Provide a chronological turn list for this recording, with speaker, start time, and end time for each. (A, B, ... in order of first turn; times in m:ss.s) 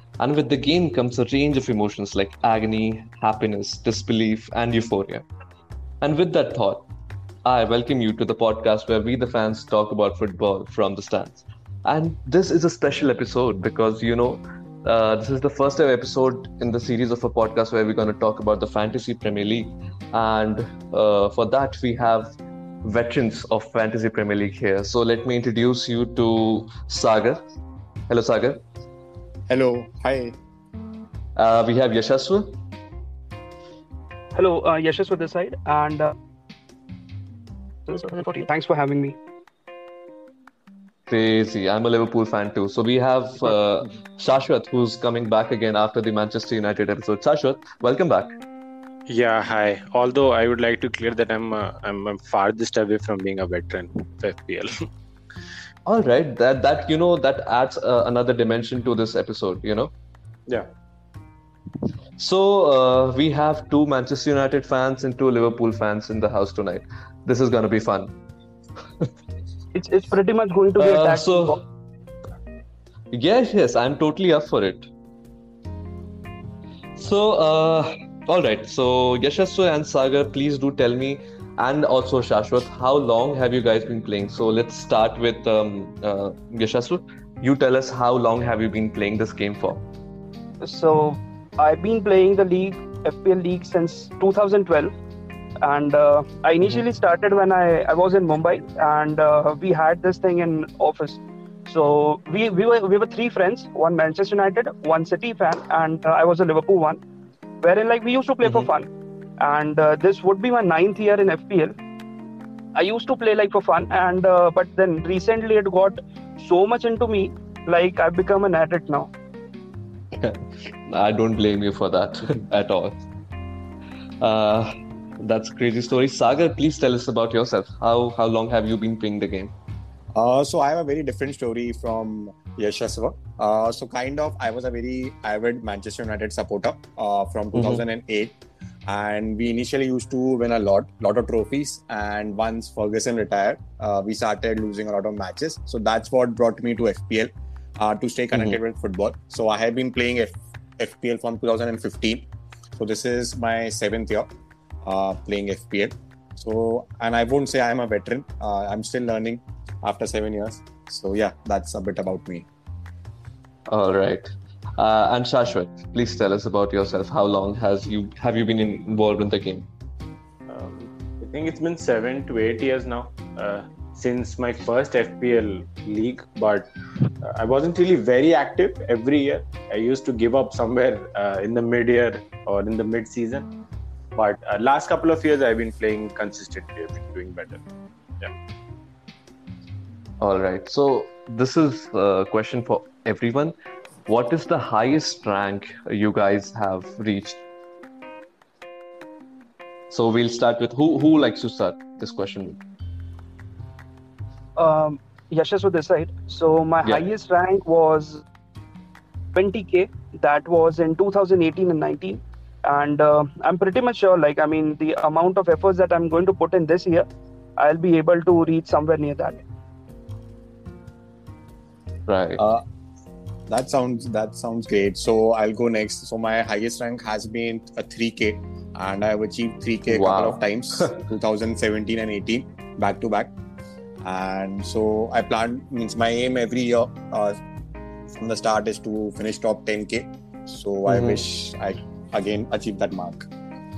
0:00.2-0:05.2 A
0:06.0-0:06.8 A
0:07.4-0:22.3 A
0:22.8-0:27.4 A
0:28.1-0:28.6 A
0:29.5-0:30.4 B
0:31.4-0:32.6 A
0:34.4-0:36.1 C
0:37.9-0:39.2 C
0:41.1-0:48.4 A
0:49.1-0:54.9 D
0:55.9-0:59.9 A
1:02.2-1:08.1 A
1:09.7-1:11.6 C
1:10.8-1:11.6 A
1:13.1-1:14.9 A
1:17.0-1:29.8 A
1:30.6-1:35.0 C
1:35.6-1:47.0 C
1:47.6-1:48.9 C
1:48.4-1:48.7 A
1:49.4-1:51.8 C
1:52.8-1:59.1 C
2:00.2-2:03.0 A
2:04.2-2:09.5 A
2:10.2-2:34.3 B
2:17.6-2:17.8 A
2:28.3-2:28.6 A
2:34.8-2:42.5 B
2:43.7-2:49.7 A
2:50.5-3:03.5 D
3:04.2-3:07.6 D
3:10.2-3:13.6 A
3:14.1-3:17.4 A
3:19.9-3:22.6 A
3:24.6-3:28.2 C
3:29.3-3:37.1 C
3:37.6-3:39.4 C
3:42.1-3:42.4 A
3:42.4-3:42.6 B
3:43.5-3:53.3 B
3:49.9-3:51.0 A
3:54.0-3:57.4 B
3:58.1-4:03.3 B
4:00.9-4:01.2 A